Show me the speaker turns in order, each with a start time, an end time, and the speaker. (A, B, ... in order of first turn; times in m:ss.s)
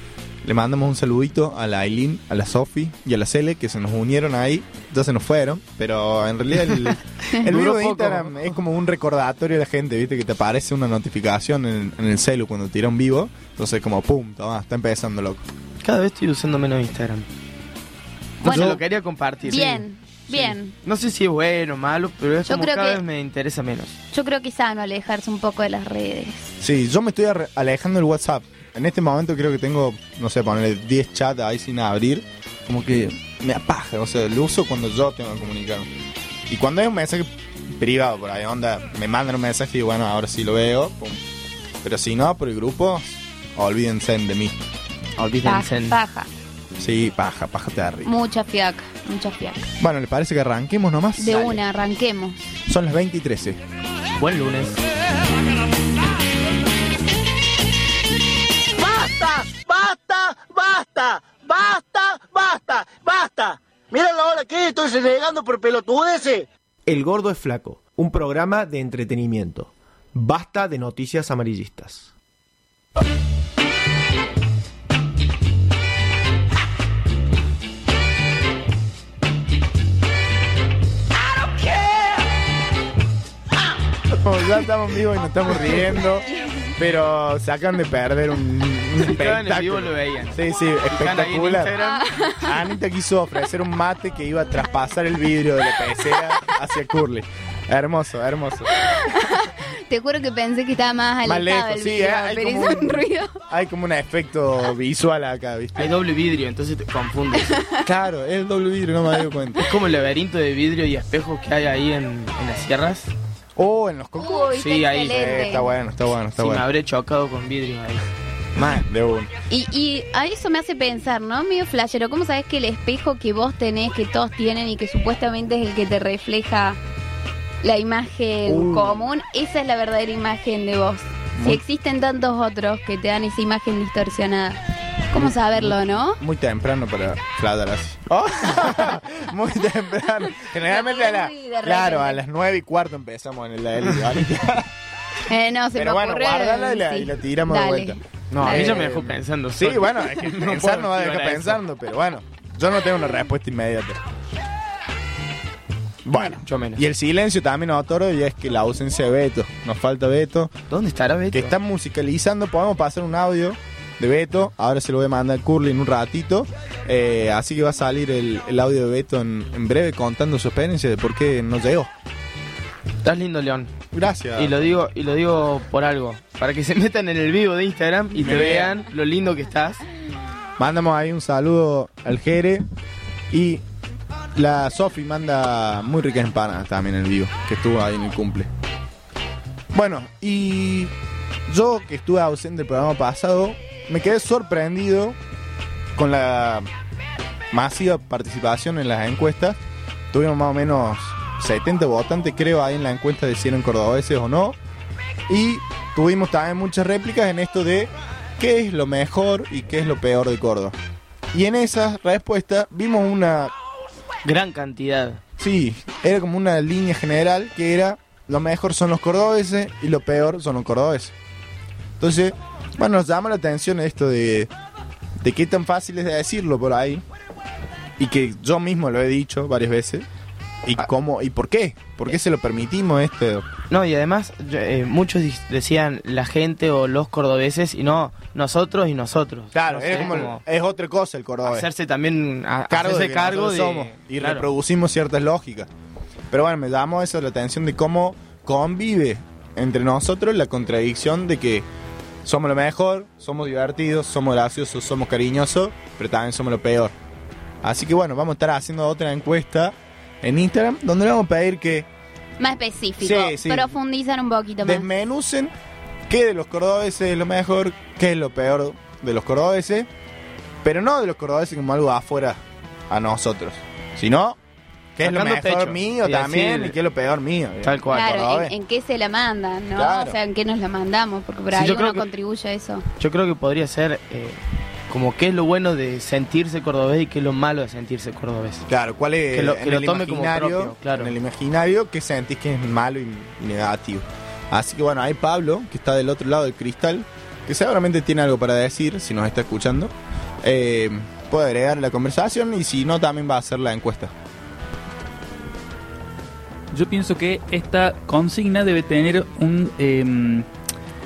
0:00.4-0:15.4 A
0:07.4-0:08.4 B
0:15.8-0:17.3 B
0:18.4-0:24.0 B
0:18.4-0:18.8 C
0:18.4-0:18.8 A
0:19.4-0:20.7 C
0:22.4-0:23.0 C
0:24.1-0:26.5 C
0:26.6-0:35.9 A
0:36.5-0:41.2 A
0:41.8-0:44.6 A
0:45.2-0:46.0 B
0:45.4-0:46.3 C
0:46.8-0:48.1 A
0:48.0-0:49.6 C
0:49.8-0:51.5 A
0:51.2-0:52.4 C
0:51.3-0:51.6 B
0:52.7-0:53.6 A
0:54.2-0:54.8 B
0:58.8-1:06.4 D
1:06.8-1:12.1 E
1:24.1-1:26.2 A
1:26.4-1:26.7 C
1:26.8-1:31.8 A
1:29.0-1:30.4 B
1:30.9-1:32.1 B
1:31.8-1:32.5 C
1:32.4-1:38.7 A
1:38.8-1:43.4 C
1:41.2-1:45.9 A
1:45.8-1:47.6 B
1:47.8-1:49.7 A
1:49.6-1:53.1 B
1:53.6-1:56.7 A
1:54.2-1:55.7 C
1:54.5-1:55.6 B
1:56.3-1:58.0 B
1:58.6-1:59.3 A
1:59.5-2:06.8 C
2:07.6-2:14.6 C
2:08.5-2:09.0 A
2:11.4-2:11.6 A
2:15.1-2:16.2 C
2:15.1-2:24.7 A
2:20.4-2:22.2 C
2:25.3-2:28.9 C
2:25.7-2:34.0 A
2:28.3-2:31.6 B
2:36.0-2:40.5 A
2:36.2-2:36.8 B
2:40.7-2:41.5 B
2:41.3-2:51.9 A
2:53.0-2:53.7 B
2:53.9-2:54.6 A
2:54.4-2:59.8 B
2:58.1-2:58.8 A
3:00.6-3:02.6 A
3:03.3-3:03.6 A
3:04.3-3:08.5 A
3:09.7-3:10.9 A
3:11.5-3:15.2 A
3:16.0-3:16.7 A
3:17.5-3:19.6 A
3:20.1-3:24.6 A
3:25.3-3:30.8 A
3:31.3-3:33.5 A
3:34.2-3:35.2 B
3:35.4-3:41.1 A
3:42.0-3:44.5 A
3:45.2-3:47.0 A
3:48.0-3:50.1 A
3:50.6-3:53.5 A
3:53.7-4:00.4 B
3:59.5-4:01.7 A
4:01.4-4:04.4 B
4:02.7-4:05.7 A
4:06.3-4:11.7 A
4:12.2-4:16.9 A
4:17.6-4:21.9 A
4:22.4-4:24.9 C
4:23.0-4:23.7 A
4:24.6-4:25.5 A
4:26.1-4:29.9 A
4:30.6-4:34.4 A
4:35.0-4:38.5 A
4:35.0-4:36.7 B
4:37.6-4:38.2 B
4:37.9-4:42.8 C
4:39.8-4:40.2 A
4:41.5-4:42.0 B
4:43.0-4:48.6 B
4:48.7-5:04.1 A
4:49.3-4:51.1 B
5:06.7-5:10.5 F